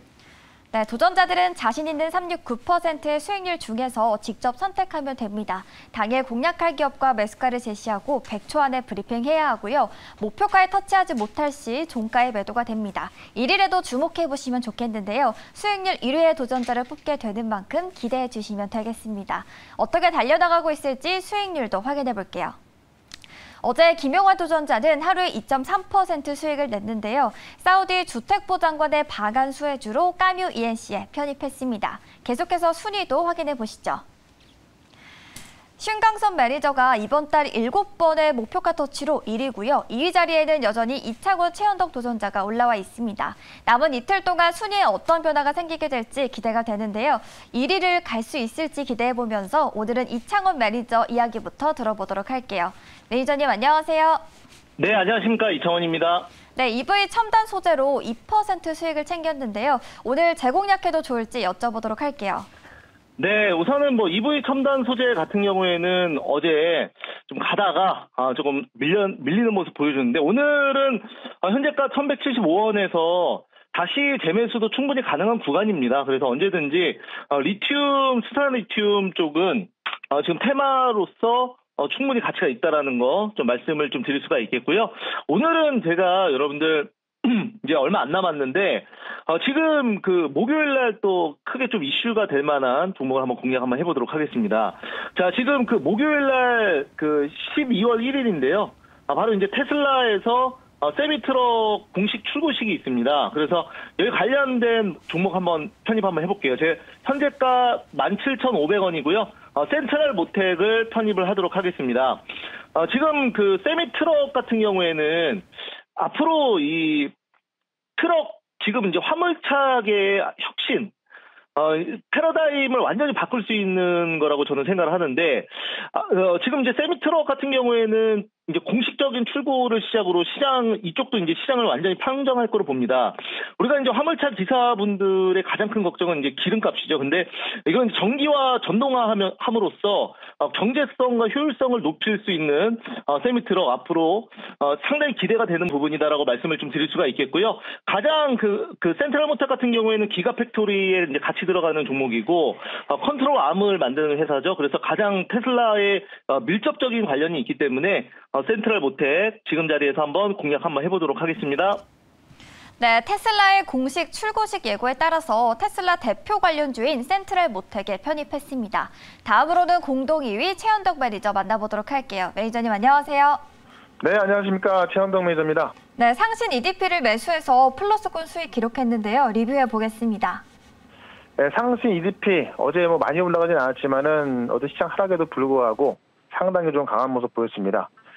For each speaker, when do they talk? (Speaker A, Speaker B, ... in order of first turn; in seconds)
Speaker A: 0.7-22.6, 23.6-34.0, 35.8-54.2, 56.5-62.5, 162.8-173.4, 175.9-180.4
Speaker B: 54.8-56.3, 63.2-117.1, 118.0-120.9, 121.5-161.8
Speaker C: 174.0-175.7, 181.4-187.9